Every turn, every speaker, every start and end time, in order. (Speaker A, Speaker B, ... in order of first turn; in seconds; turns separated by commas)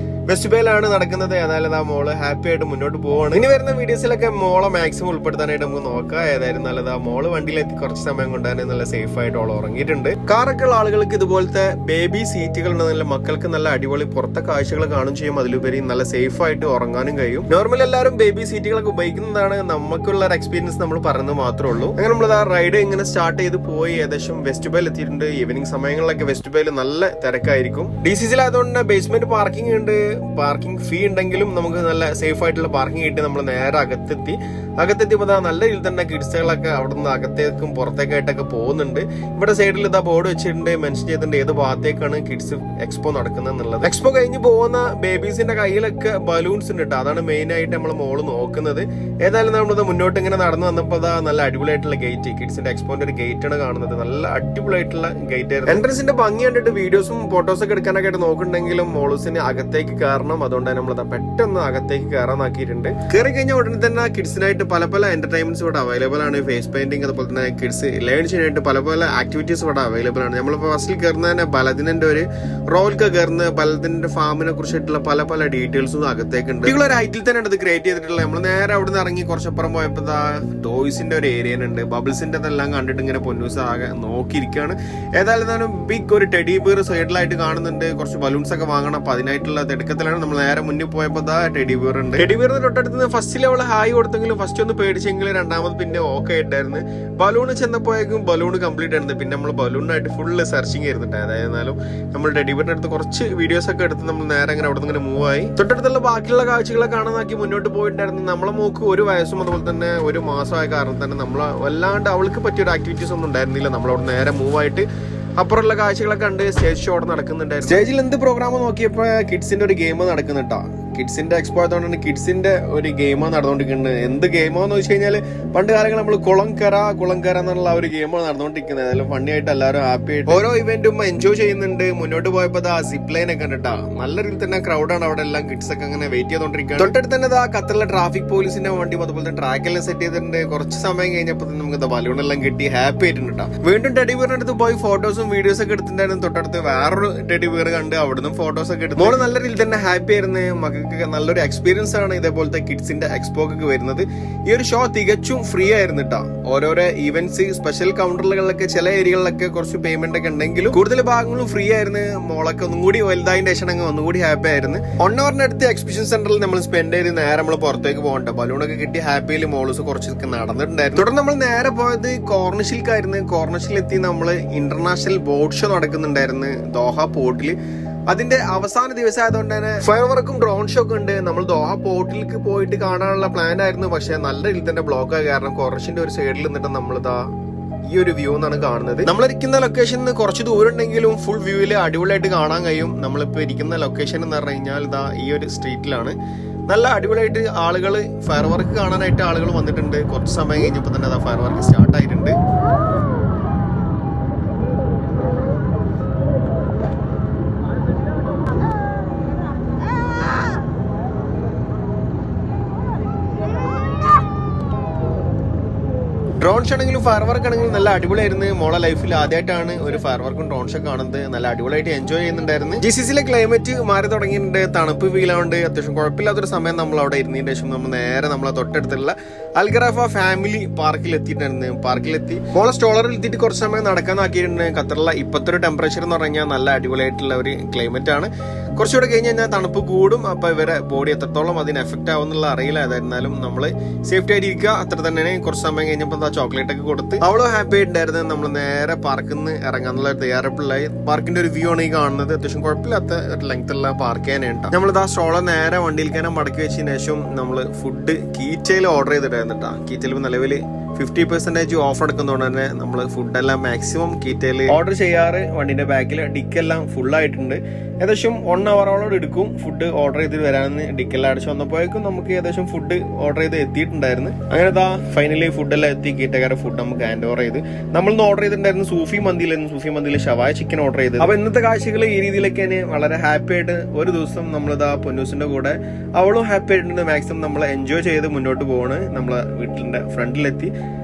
Speaker A: 0.3-177.6, Speaker A: 178.1-187.2, Speaker A: 187.9-196.2, Speaker A: 196.7-202.4, Speaker A: 216.4-290.7